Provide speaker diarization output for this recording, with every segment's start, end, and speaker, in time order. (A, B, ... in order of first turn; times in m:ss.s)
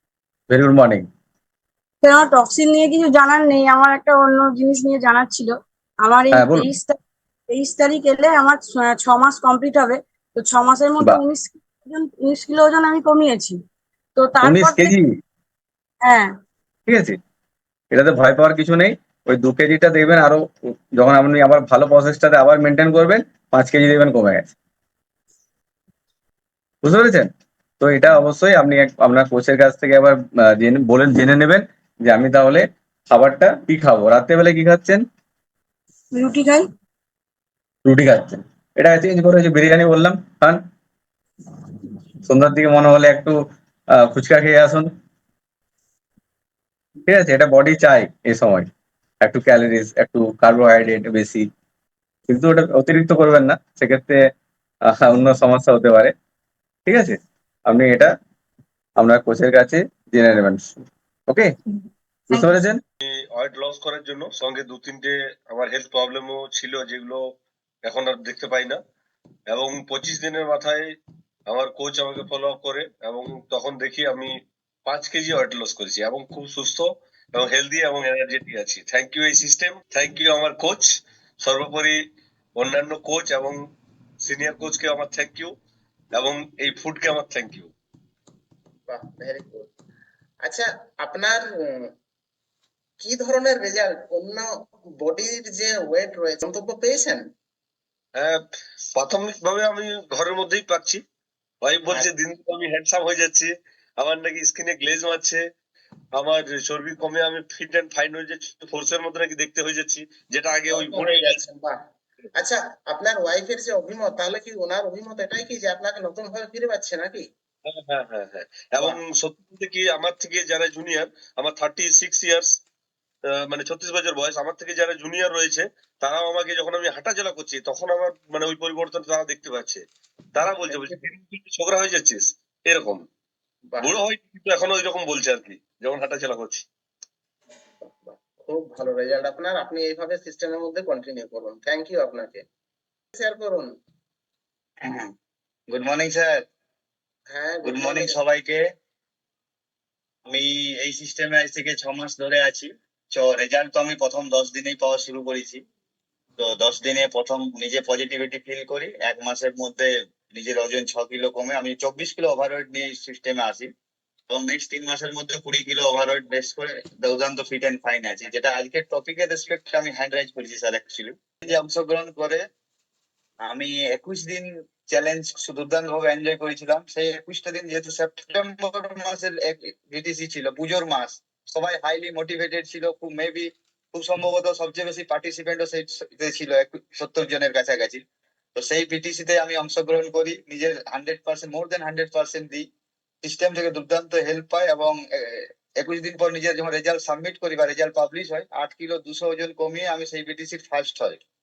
0:00.5-0:01.1 A
0:02.0-0:13.6 B
0:06.3-0:06.7 A
0:14.2-0:14.9 B
0:14.4-0:15.0 A
0:16.0-0:16.3 B
0:16.9-0:17.2 A
0:17.9-0:24.5 A
0:26.8-0:35.0 A
0:36.1-0:36.6 B
0:37.8-0:40.6 A
0:42.2-0:43.4 A
0:43.9-0:44.9 A
0:47.1-0:48.7 A
0:49.2-0:51.5 A
0:52.3-0:54.2 A
0:54.8-0:56.1 A
0:56.8-0:58.1 A
0:59.0-1:00.7 A
1:01.3-1:01.5 A
1:02.3-1:02.8 A
1:03.4-1:07.2 C
1:07.9-1:08.8 C
1:09.5-1:10.8 C
1:11.5-1:14.3 C
1:14.9-1:20.9 C
1:21.4-1:21.9 C
1:22.6-1:23.6 C
1:24.2-1:25.5 C
1:26.2-1:27.7 C
1:28.9-1:29.7 D
1:30.4-1:31.9 D
1:33.0-1:34.5 D
1:35.0-1:37.2 D
1:39.0-1:41.0 C
1:41.6-1:43.5 C
1:44.0-1:45.4 C
1:46.2-1:51.3 C
1:50.7-1:51.8 D
1:52.4-1:57.2 D
1:57.9-2:02.4 C
2:03.5-2:09.8 C
2:10.4-2:13.0 C
2:10.7-2:11.1 D
2:13.8-2:16.6 C
2:17.8-2:22.4 D
2:23.1-2:23.7 D
2:24.8-2:25.1 E
2:25.7-2:26.4 E
2:27.3-2:28.2 D
2:27.6-2:28.6 E
2:30.3-2:35.6 E
2:36.4-2:43.7 E
2:44.3-2:52.4 E
2:53.4-3:08.0 E
3:08.5-3:12.6 E
3:13.2-3:21.2 E